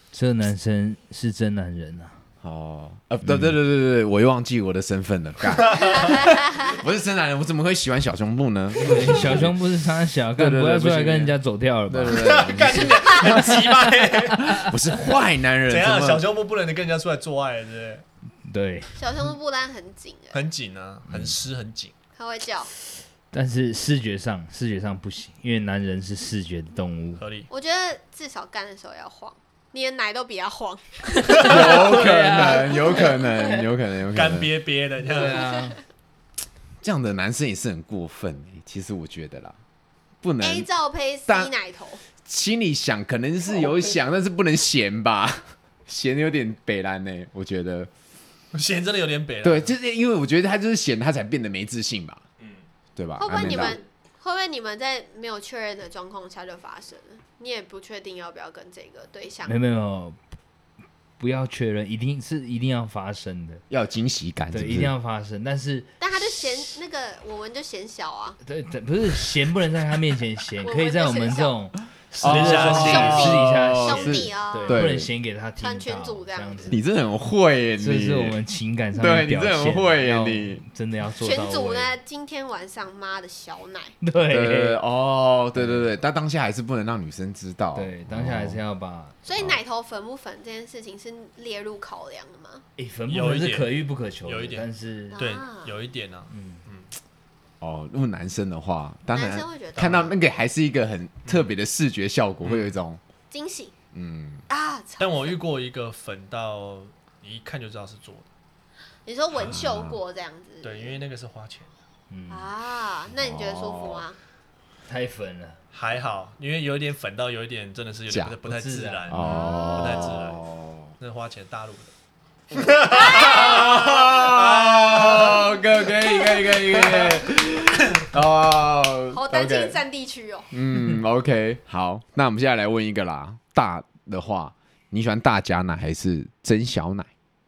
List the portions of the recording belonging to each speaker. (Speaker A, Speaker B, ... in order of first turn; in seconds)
Speaker A: 0.1-2.2, 3.2-3.5, 8.8-12.4, 18.5-19.0, 23.3-27.2, 31.4-33.6, 35.1-35.8, 53.3-53.8, 59.5-60.2, 61.2-63.6, 64.5-65.9, 68.4-76.8, 77.8-81.9, 84.0-84.8, 85.5-85.9, 87.7-89.2, 92.8-95.2, 96.3-96.6, 112.1-112.5, 114.9-115.6, 118.4-119.5
Speaker B: 2.4-9.6, 10.4-11.3, 11.9-16.3, 31.4-34.5, 36.8-39.5, 40.2-40.7, 41.3-41.5, 42.2-47.9, 49.4-52.2, 53.0-53.8, 63.7-64.9, 72.2-75.1, 76.7-78.4, 78.9-80.6, 84.3-88.6, 97.6-103.0, 103.9-104.5, 109.4-110.0, 113.1-114.0, 118.1-118.4, 119.1-120.9, 122.5-129.8, 130.5-137.1
Speaker C: 5.6-6.1, 12.1-14.8, 15.7-18.0, 20.3-21.9, 27.2-27.5, 34.1-35.4, 48.5-49.7, 52.4-52.6, 72.2-73.4, 93.1-93.7, 94.2-96.9, 99.8-100.0, 102.4-102.8, 105.0-108.2, 110.6-111.7, 115.7-120.4, 121.0-121.9, 122.5-125.6, 126.2-127.2
Speaker D: 6.1-6.7, 19.0-20.4, 22.1-22.7, 27.5-32.0, 40.4-42.0, 53.2-59.5, 66.0-68.4, 70.6-71.5, 72.6-74.8, 75.6-76.8, 81.2-84.0, 89.2-92.6, 95.1-95.7, 99.1-100.1, 103.3-103.7, 104.5-105.3, 109.0-111.0, 112.3-114.2, 119.2-120.2, 122.8-123.8, 129.1-130.5